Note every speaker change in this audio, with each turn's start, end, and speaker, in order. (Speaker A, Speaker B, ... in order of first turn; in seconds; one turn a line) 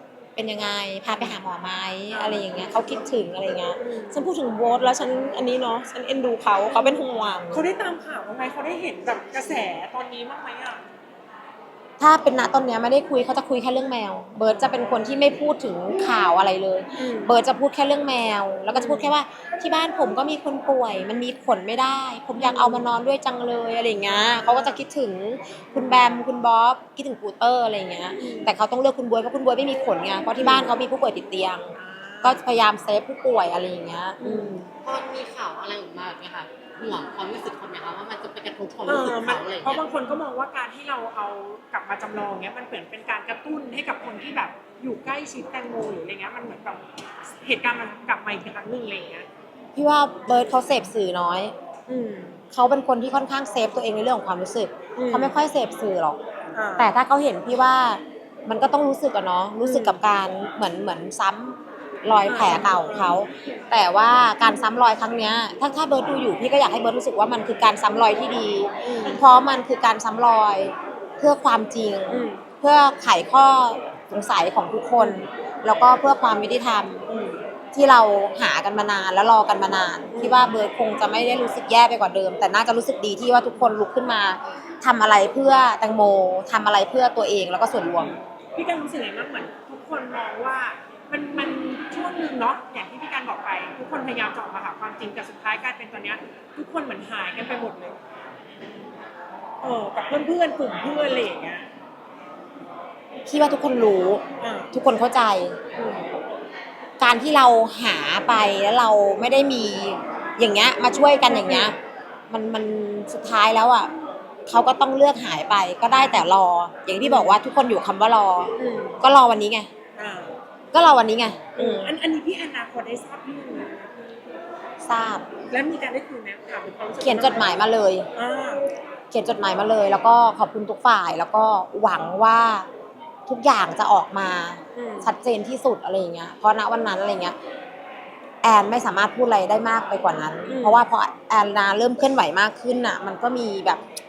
Speaker A: 0.3-7.6
Speaker B: 1.1-1.4
Speaker B: 2.1-2.7
Speaker B: 3.8-4.3
Speaker B: 7.5-10.8
Speaker A: 12.0-34.6
Speaker B: 17.0-17.3
Speaker B: 18.7-19.1
Speaker B: 22.4-22.9
Speaker B: 24.1-24.8
Speaker B: 25.7-26.2
Speaker B: 28.2-28.5
Speaker B: 30.4-30.7
Speaker B: 31.8-32.4
Speaker B: 34.2-34.7
Speaker C: 34.8-39.9
Speaker B: 38.8-46.8
Speaker B: 47.4-49.3
Speaker A: 49.8-51.5
Speaker B: 51.9-52.4
Speaker A: 52.5-56.2
Speaker B: 55.0-55.4
Speaker B: 56.5-56.9
Speaker A: 56.8-77.0
Speaker B: 59.6-60.0
Speaker B: 62.2-63.2
Speaker B: 68.8-69.2
Speaker B: 72.1-72.4
Speaker B: 75.0-75.2
Speaker B: 77.1-77.4
Speaker A: 77.7-88.1
Speaker B: 80.1-80.5
Speaker B: 87.9-98.0
Speaker B: 99.6-101.7
Speaker A: 103.2-105.5
Speaker B: 104.4-104.7
Speaker B: 105.8-106.1
Speaker A: 107.0-111.8
Speaker B: 111.2-111.7
Speaker A: 112.3-113.9
Speaker A: 114.5-119.7
Speaker B: 115.9-116.3
Speaker B: 117.0-117.4
Speaker B: 118.6-119.0
Speaker B: 120.0-120.4
Speaker A: 120.7-121.9
Speaker B: 121.5-124.3
Speaker A: 124.8-125.2
Speaker B: 125.5-127.5
Speaker A: 127.0-128.1
Speaker B: 128.1-128.6
Speaker A: 129.1-132.7
Speaker A: 133.3-137.3
Speaker B: 134.7-135.1
Speaker A: 138.4-143.8
Speaker B: 140.4-140.8